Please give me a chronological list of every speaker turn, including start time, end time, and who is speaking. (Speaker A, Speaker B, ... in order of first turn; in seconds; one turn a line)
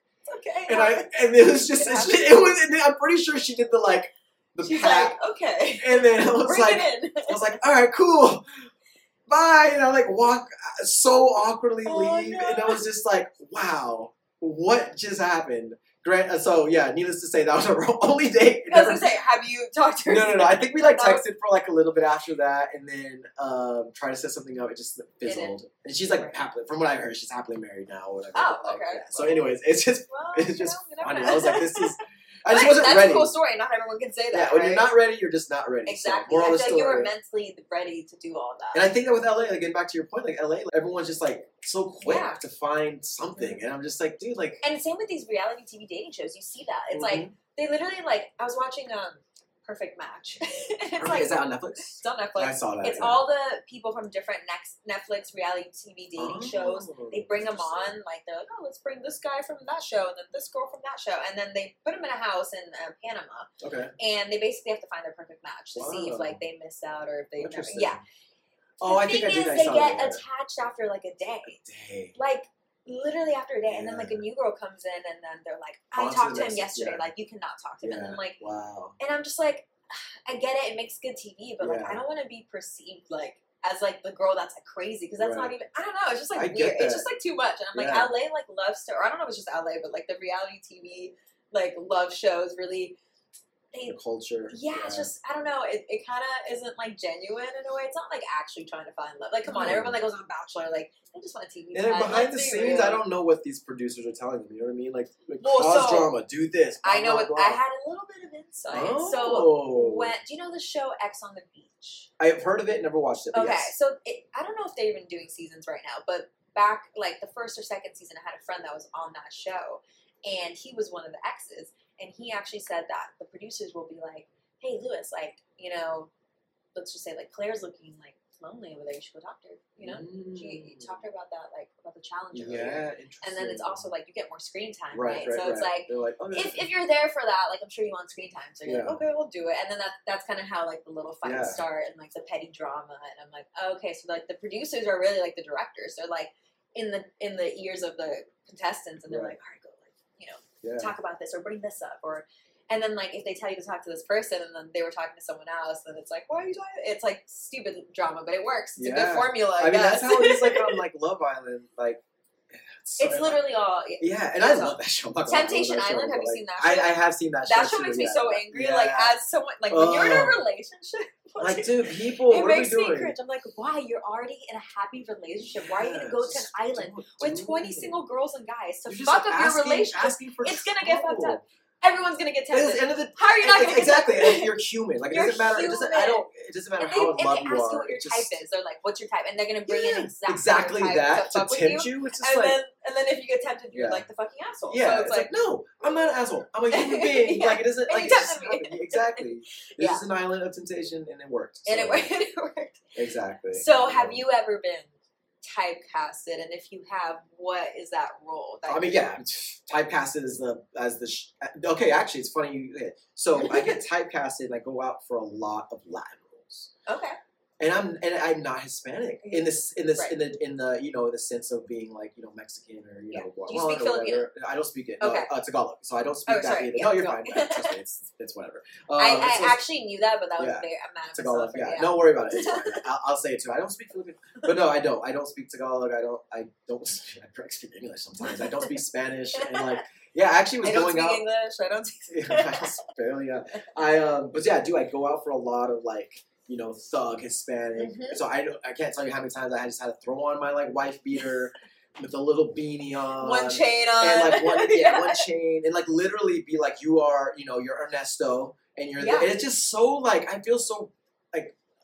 Speaker A: 0.3-2.5
Speaker B: 0.7-5.2
Speaker A: 4.6-7.5
Speaker B: 5.8-8.7
Speaker B: 9.3-19.1
Speaker A: 11.8-12.8
Speaker A: 18.7-21.2
Speaker B: 20.1-33.3
Speaker A: 25.2-25.6
Speaker A: 28.4-29.5
Speaker A: 30.1-31.9
Speaker A: 32.5-34.9
Speaker B: 34.3-37.1
Speaker A: 35.9-38.9
Speaker B: 38.7-44.6
Speaker A: 42.0-42.4
Speaker A: 44.6-68.0
Speaker B: 46.9-47.4
Speaker B: 51.0-53.2
Speaker B: 56.2-58.0
Speaker B: 63.6-63.9
Speaker B: 65.7-66.4
Speaker B: 67.4-68.0
Speaker B: 68.8-70.2
Speaker A: 68.8-71.6
Speaker B: 71.5-72.2
Speaker A: 72.2-78.4
Speaker B: 73.7-74.2
Speaker B: 76.0-77.1
Speaker B: 77.8-79.0
Speaker A: 79.0-93.0
Speaker B: 81.6-82.0
Speaker B: 85.2-85.5
Speaker B: 86.3-87.1
Speaker B: 87.7-88.1
Speaker B: 93.8-95.1
Speaker A: 94.5-103.0
Speaker B: 99.5-100.0
Speaker B: 101.7-107.6
Speaker A: 105.4-106.1
Speaker A: 106.8-112.1
Speaker B: 108.7-110.1
Speaker B: 112.2-113.7
Speaker A: 113.3-126.1
Speaker A: 126.7-160.8
Speaker B: 129.8-131.0
Speaker B: 132.3-133.9
Speaker B: 134.9-136.7
Speaker B: 138.7-139.0
Speaker B: 141.2-141.6
Speaker B: 149.1-149.3
Speaker B: 150.6-150.9
Speaker B: 158.8-162.0
Speaker B: 162.5-169.2
Speaker A: 163.0-184.5
Speaker B: 169.7-170.4
Speaker B: 171.4-173.1
Speaker B: 175.5-178.0
Speaker B: 178.9-181.4
Speaker B: 182.5-188.4
Speaker A: 185.1-186.2
Speaker A: 186.8-195.3
Speaker B: 189.7-192.6
Speaker B: 193.7-194.0
Speaker B: 194.7-202.1
Speaker A: 196.7-200.0
Speaker A: 201.7-202.9
Speaker B: 202.9-204.2
Speaker A: 203.5-204.9
Speaker A: 205.4-209.0
Speaker B: 208.7-216.7
Speaker A: 213.4-213.8
Speaker A: 216.9-217.2
Speaker B: 217.6-229.6
Speaker A: 219.2-220.2
Speaker A: 223.1-224.3
Speaker A: 225.0-225.3
Speaker A: 226.3-227.8
Speaker A: 229.0-232.8
Speaker B: 230.4-241.2
Speaker A: 238.2-238.8
Speaker A: 239.3-239.8
Speaker A: 240.6-242.7
Speaker B: 242.1-261.6
Speaker A: 247.8-248.2
Speaker A: 253.2-255.2
Speaker A: 259.0-259.3